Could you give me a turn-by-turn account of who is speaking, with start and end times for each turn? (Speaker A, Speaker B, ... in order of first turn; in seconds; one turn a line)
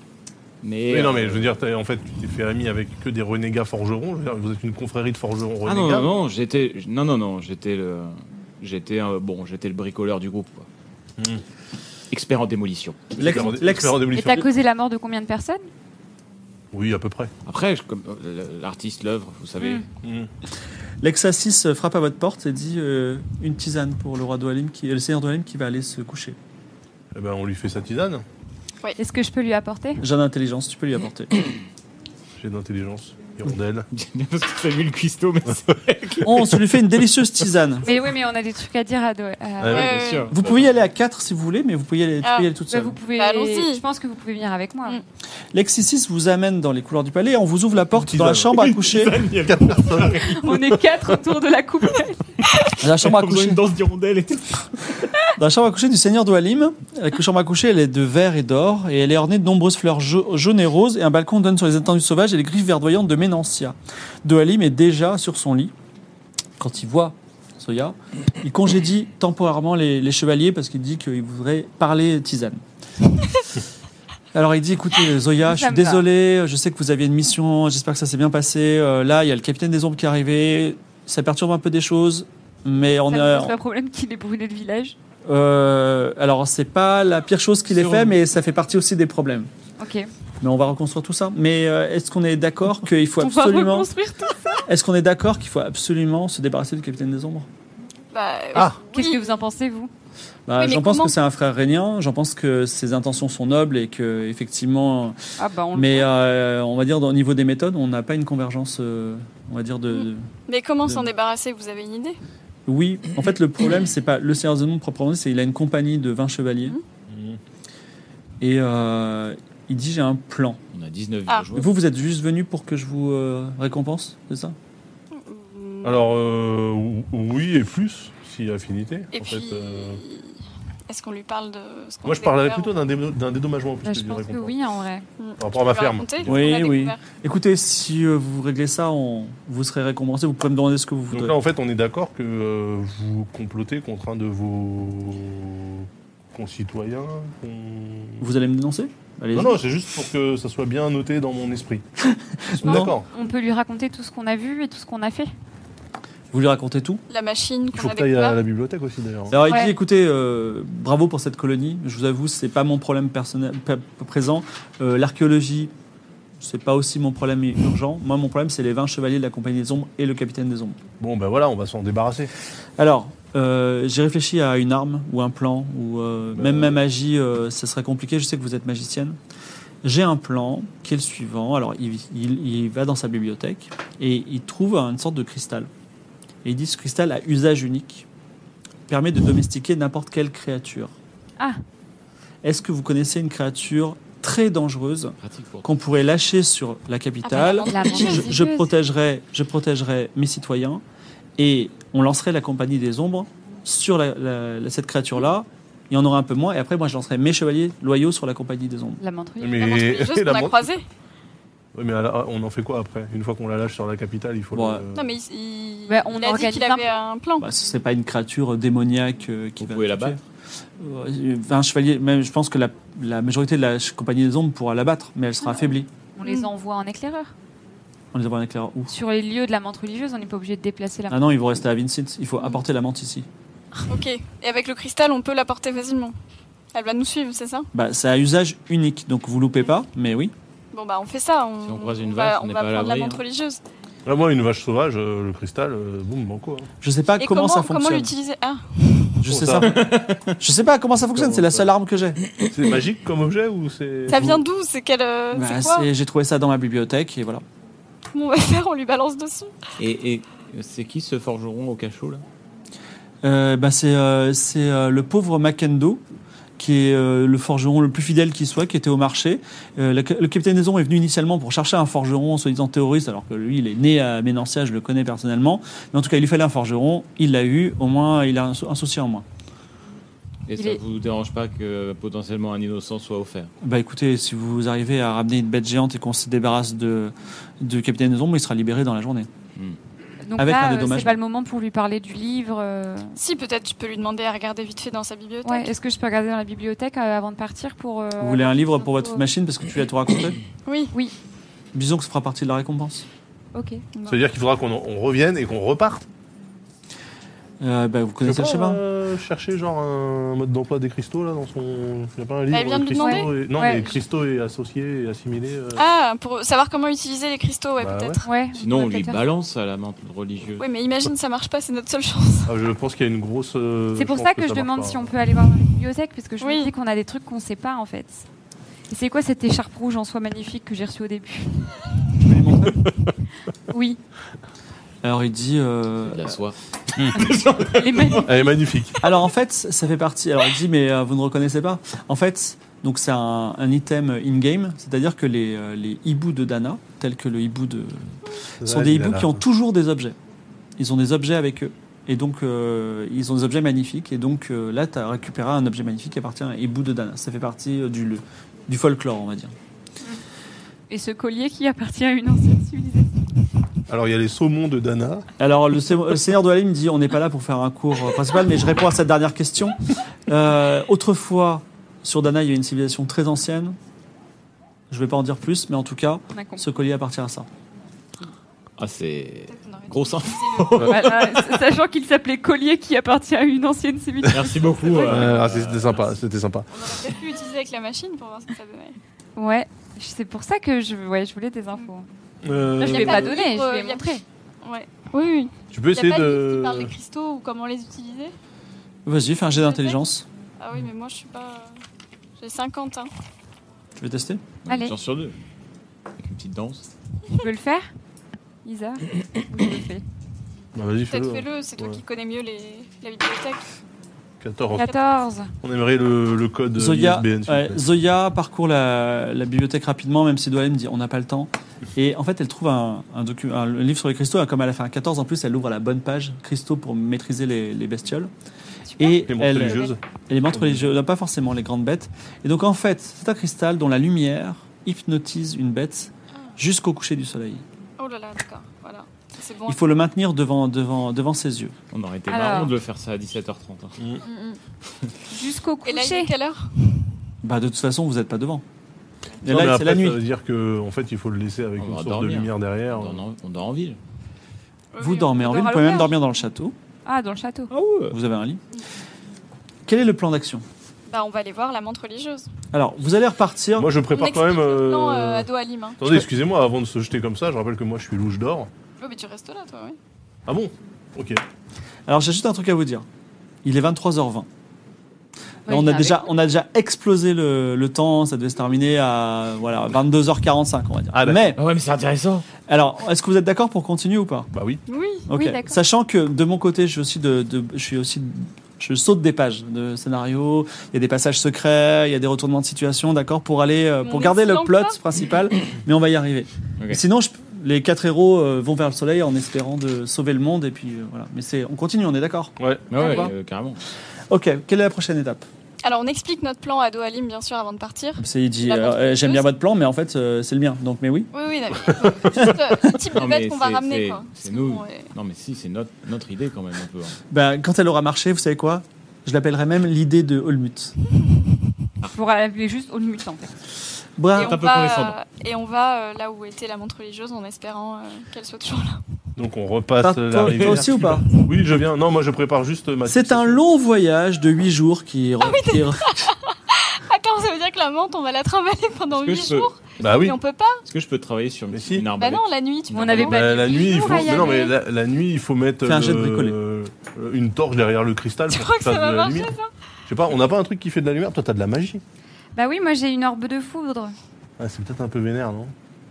Speaker A: 0.6-1.5
Speaker B: 0.9-6.1
Speaker A: 5.6-10.7
Speaker B: 11.2-11.4
Speaker A: 12.1-13.5
Speaker C: 13.2-14.1
Speaker B: 13.2-14.4
Speaker D: 14.1-15.7
Speaker B: 16.7-17.3
Speaker A: 17.4-19.8
Speaker D: 19.6-19.9
Speaker B: 20.0-20.3
Speaker C: 21.0-26.4
Speaker B: 27.1-28.2
Speaker D: 29.0-30.0
Speaker C: 30.0-31.5
Speaker B: 32.4-33.9
Speaker A: 33.9-36.6
Speaker C: 36.2-37.9
Speaker D: 37.8-39.9
Speaker B: 39.6-40.7
Speaker A: 39.7-40.3
Speaker E: 39.7-40.3
Speaker C: 40.3-43.0
Speaker E: 42.2-42.5
Speaker D: 42.7-45.0
Speaker E: 43.1-43.8
Speaker C: 45.5-49.3
Speaker B: 48.0-48.5
Speaker A: 48.5-50.5
Speaker B: 49.4-50.6
Speaker D: 50.3-52.2
Speaker C: 52.8-53.6
Speaker A: 52.9-54.7
Speaker C: 55.3-65.7
Speaker C: 66.6-72.6
Speaker C: 74.3-83.5
Speaker D: 75.5-76.0
Speaker D: 83.1-85.0
Speaker C: 85.2-89.5
Speaker A: 87.7-88.2
Speaker D: 89.8-90.1
Speaker C: 90.4-93.9
Speaker D: 93.2-94.6
Speaker C: 94.7-97.5
Speaker E: 98.1-99.2
Speaker D: 98.9-99.9
Speaker C: 100.5-105.2
Speaker E: 100.6-101.1
Speaker D: 105.4-106.1
Speaker C: 105.7-110.3
Speaker E: 109.9-112.2
Speaker C: 112.7-116.8
Speaker B: 117.1-117.4
Speaker C: 118.4-120.6
Speaker A: 120.7-121.7
Speaker C: 121.5-124.5
Speaker E: 125.1-126.0
Speaker B: 125.8-130.0
Speaker E: 129.1-132.7
Speaker B: 132.0-134.6
Speaker D: 133.8-135.1
Speaker E: 135.2-137.0
Speaker B: 135.4-136.4
Speaker C: 136.2-141.3
Speaker B: 141.1-148.2
Speaker C: 148.2-149.6
Speaker B: 149.3-151.8
Speaker C: 152.0-152.9
Speaker B: 152.6-153.1
Speaker D: 152.7-155.3
Speaker C: 156.3-157.0
Speaker E: 157.1-158.4
Speaker B: 157.7-159.3
Speaker C: 159.3-165.7
Speaker D: 159.5-159.7
Speaker C: 166.4-170.8
Speaker B: 171.0-172.3
Speaker C: 172.8-179.2
Speaker B: 176.4-176.8
Speaker C: 179.8-185.7
Speaker C: 186.4-188.1
Speaker C: 188.9-190.9
Speaker C: 192.4-200.8
Speaker A: 195.2-195.7
Speaker D: 197.2-198.7
Speaker E: 197.4-198.2
Speaker C: 201.4-209.0
Speaker D: 209.0-209.7
Speaker B: 209.4-210.7
Speaker E: 209.6-210.8
Speaker B: 211.7-215.1
Speaker C: 214.5-214.8
Speaker E: 214.9-217.5
Speaker D: 215.9-217.0
Speaker C: 217.4-220.2
Speaker A: 219.6-220.2
Speaker C: 220.8-225.9
Speaker D: 226.2-227.3
Speaker C: 228.1-228.9
Speaker D: 228.9-231.2
Speaker C: 231.1-233.2
Speaker E: 233.8-236.1
Speaker E: 236.7-237.7
Speaker C: 237.7-240.3
Speaker E: 240.7-243.6
Speaker A: 241.6-243.2
Speaker B: 244.1-246.7
Speaker C: 246.8-248.1
Speaker E: 247.2-249.2
Speaker C: 249.2-252.2
Speaker B: 249.2-249.8
Speaker A: 249.6-250.4
Speaker B: 251.2-251.6
Speaker B: 252.5-254.4
Speaker E: 254.1-255.9
Speaker C: 255.3-257.4
Speaker E: 258.1-259.5
Speaker A: 259.8-262.2
Speaker C: 263.2-266.0
Speaker C: 266.6-279.2
Speaker A: 280.5-283.5
Speaker C: 283.6-289.3
Speaker D: 290.2-293.2
Speaker C: 290.4-291.2
Speaker E: 293.1-295.7
Speaker D: 295.4-299.2
Speaker C: 298.2-300.4
Speaker E: 300.6-300.9
Speaker C: 301.7-303.1
Speaker D: 303.5-303.8
Speaker B: 304.1-306.0
Speaker C: 307.6-308.8
Speaker B: 308.2-315.9
Speaker E: 312.5-313.7
Speaker D: 312.9-314.0
Speaker E: 315.8-318.3
Speaker B: 317.8-318.2
Speaker D: 318.2-319.2
Speaker A: 318.5-320.6
Speaker E: 320.6-322.5
Speaker B: 322.5-325.0
Speaker D: 323.9-328.2
Speaker E: 326.4-326.7
Speaker D: 328.9-331.8
Speaker C: 332.2-332.8
Speaker D: 333.7-334.0
Speaker C: 335.0-336.4
Speaker A: 336.1-338.3
Speaker D: 337.1-338.3
Speaker B: 338.2-339.0
Speaker C: 339.0-350.1
Speaker B: 348.6-349.4
Speaker C: 350.8-359.5
Speaker D: 360.9-363.1
Speaker B: 363.9-365.3
Speaker C: 365.4-373.8
Speaker C: 374.9-377.5
Speaker D: 376.3-376.6
Speaker A: 378.8-381.6
Speaker E: 379.5-381.0
Speaker D: 380.8-385.2
Speaker A: 384.2-386.1
Speaker B: 384.9-386.7
Speaker E: 386.7-388.9
Speaker D: 389.4-392.1
Speaker B: 392.4-393.4
Speaker D: 392.8-394.2
Speaker E: 392.8-394.1
Speaker E: 394.6-398.3
Speaker B: 395.7-396.9
Speaker C: 399.0-400.2
Speaker E: 399.5-400.0
Speaker E: 400.6-401.8
Speaker E: 402.4-403.1
Speaker C: 404.0-404.4
Speaker A: 404.6-405.4
Speaker D: 404.6-404.9
Speaker A: 406.2-406.8
Speaker D: 407.4-407.9
Speaker D: 408.6-410.0
Speaker B: 410.7-412.0
Speaker E: 411.1-413.7
Speaker B: 414.4-414.9
Speaker D: 414.8-415.5
Speaker B: 415.6-417.8
Speaker C: 416.7-428.3
Speaker D: 428.9-429.2
Speaker C: 429.0-437.6
Speaker B: 429.2-430.0
Speaker E: 438.0-439.8
Speaker C: 439.7-441.7
Speaker A: 441.9-444.0
Speaker D: 442.3-442.7
Speaker E: 444.2-444.6
Speaker D: 445.3-446.3
Speaker E: 445.8-447.1
Speaker C: 447.4-448.6
Speaker B: 449.4-453.2
Speaker C: 449.4-450.2
Speaker A: 451.8-454.0
Speaker E: 454.9-455.3
Speaker C: 455.0-456.7
Speaker D: 455.2-456.1
Speaker D: 457.1-457.7
Speaker A: 457.7-458.1
Speaker C: 458.1-458.6
Speaker C: 459.9-460.6
Speaker E: 461.1-462.4
Speaker C: 462.7-463.9
Speaker B: 463.8-465.5
Speaker E: 464.1-466.0
Speaker B: 466.0-468.7
Speaker E: 469.0-470.0
Speaker B: 470.5-471.4
Speaker C: 472.1-473.0
Speaker C: 473.6-474.5
Speaker D: 475.7-476.3
Speaker C: 475.7-481.6
Speaker B: 481.1-481.5
Speaker A: 481.6-482.4
Speaker C: 482.7-484.5
Speaker B: 484.5-484.8
Speaker E: 484.9-485.2
Speaker C: 485.3-503.3
Speaker D: 485.3-485.8
Speaker E: 494.0-494.9
Speaker B: 502.6-502.9
Speaker A: 502.9-503.8
Speaker E: 503.0-503.3
Speaker C: 504.3-505.4
Speaker E: 505.8-509.4
Speaker C: 508.2-511.3
Speaker E: 511.3-515.1
Speaker A: 513.1-517.2
Speaker C: 517.3-520.9
Speaker D: 522.0-523.5
Speaker C: 524.2-524.6
Speaker E: 524.3-529.0
Speaker A: 524.4-525.2
Speaker B: 529.4-533.6
Speaker C: 530.0-531.2
Speaker A: 530.5-531.1
Speaker C: 533.0-536.3
Speaker E: 535.4-540.8
Speaker A: 539.1-540.1
Speaker B: 540.0-540.4
Speaker A: 540.9-543.3
Speaker B: 541.7-542.1
Speaker E: 542.1-544.7
Speaker D: 542.9-544.7
Speaker B: 543.2-549.5
Speaker C: 545.8-546.6
Speaker E: 548.5-549.7
Speaker B: 550.1-552.0
Speaker D: 552.5-554.1
Speaker B: 554.6-555.7